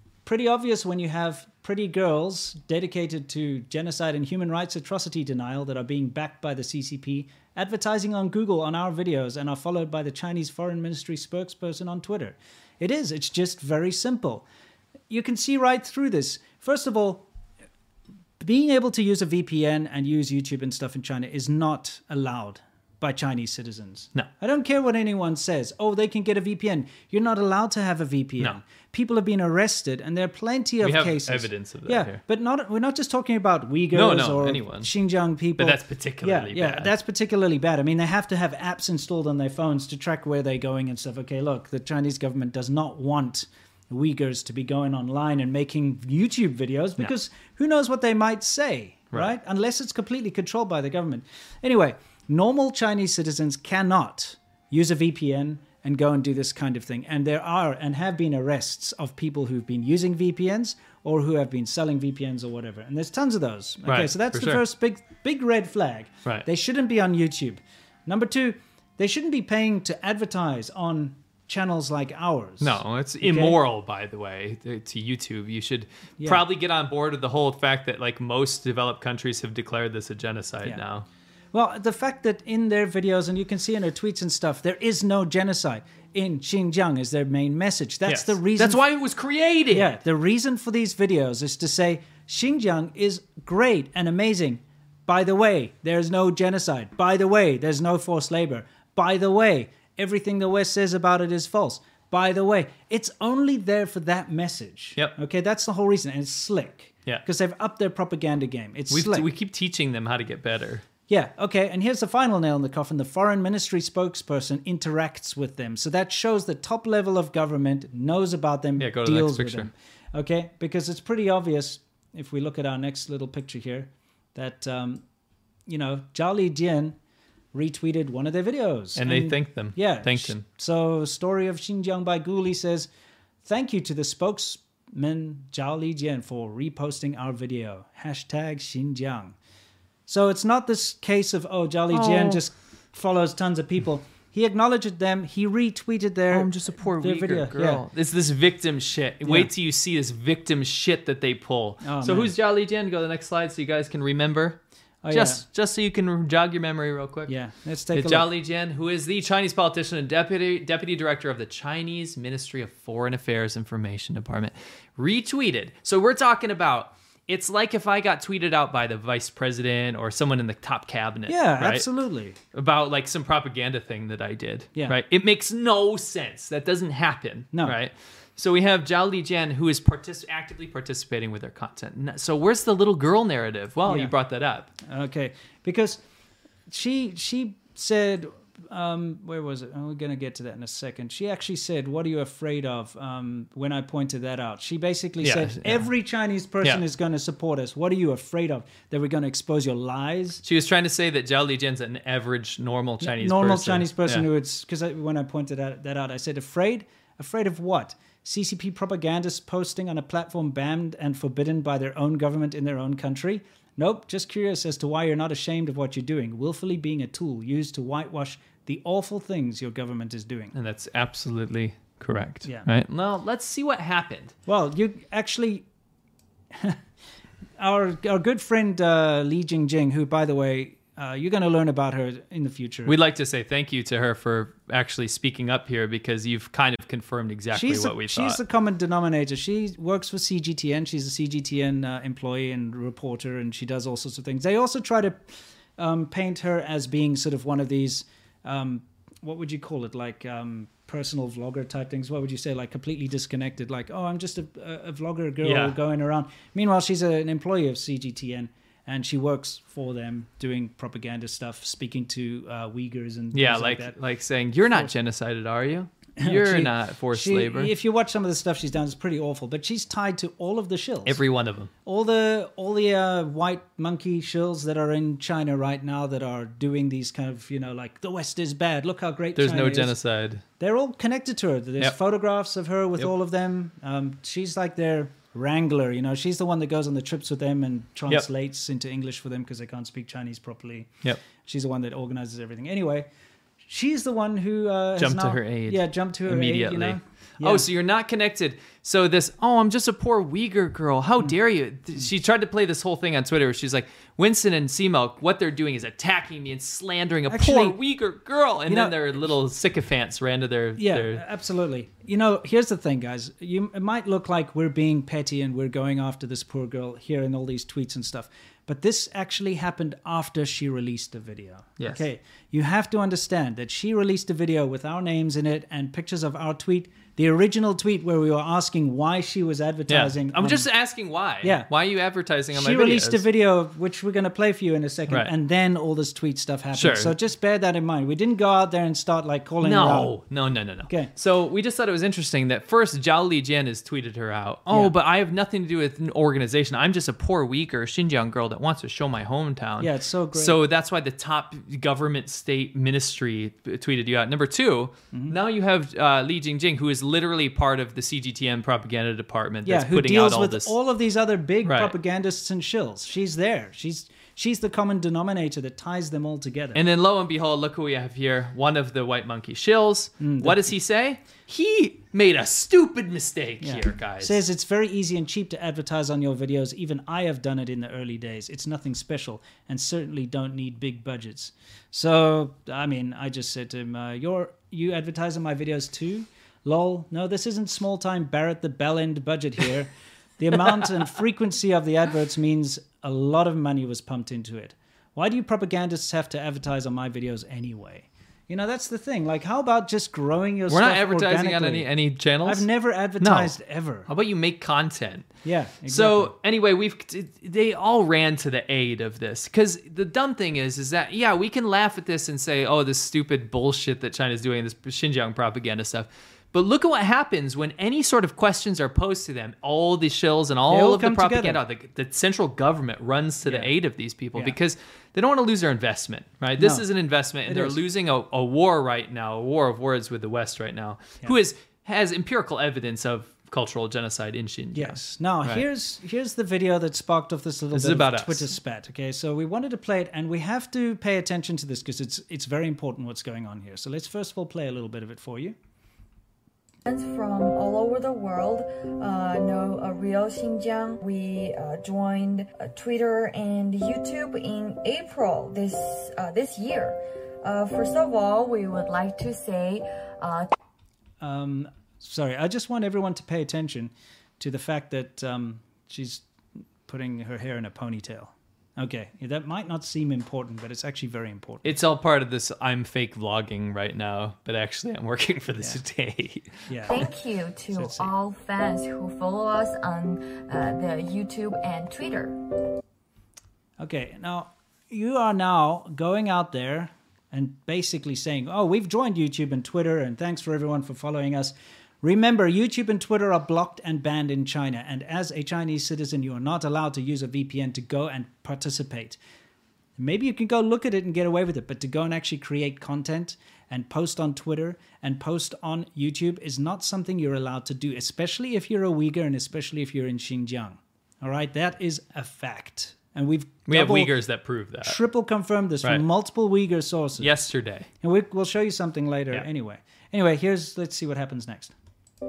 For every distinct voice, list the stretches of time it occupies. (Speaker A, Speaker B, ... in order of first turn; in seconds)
Speaker A: 0.2-14.5, 15.1-17.3, 18.4-73.6, 76.2-76.4, 81.5-88.8, 89.7-109.3, 111.1-125.0, 125.7-127.0, 127.5-132.9, 133.4-139.3, 140.1-147.8, 149.2-149.5, 151.8-152.3, 155.0-155.4, 157.3-158.3, 171.3-172.4, 177.5-177.8, 183.9-184.1, 184.8-186.0, 186.7-200.4, 203.0-220.5, 222.4-222.7, 224.5-225.7, 226.5-226.8, 227.6-232.9, 237.5-245.2, 245.8-264.0, 266.2-271.2, 271.9-280.0, 280.6-293.1, 293.6-297.7, 307.3-307.8, 308.7-309.0, 310.8-330.7, 331.4-331.7, 332.5-340.1, 349.8-350.6, 359.6-366.8, 370.2-370.7, 373.6-401.9, 402.4-404.1, 405.4-406.3, 420.7-421.6, 423.5-423.8, 426.6-426.9, 427.5-427.8, 434.7-445.6, 461.2-466.2, 466.9-471.8, 476.7-477.0, 477.7-478.1, 483.8-499.2, 500.0-514.2, 514.8-517.3, 518.0-521.7
Speaker B: 30.8-32.2, 33.9-34.9, 35.6-36.9, 63.9-64.6, 72.6-81.1, 88.1-90.0, 108.9-110.8, 118.8-119.7, 129.0-130.5, 141.9-142.4, 146.3-157.3, 157.9-171.9, 172.5-184.7, 195.2-195.9, 200.4-204.3, 220.5-224.3, 232.9-238.4, 255.4-255.8, 263.3-267.7, 271.1-271.7, 279.4-280.4, 295.0-311.2, 321.8-322.1, 329.9-333.2, 336.7-337.2, 339.6-360.7, 361.6-361.9, 366.8-374.4, 400.7-402.7, 403.2-403.6, 404.1-405.3, 405.9-435.6, 437.7-438.5, 471.6-477.0, 513.7-515.0, 517.2-517.9
Speaker C: 446.9-460.5, 476.9-482.4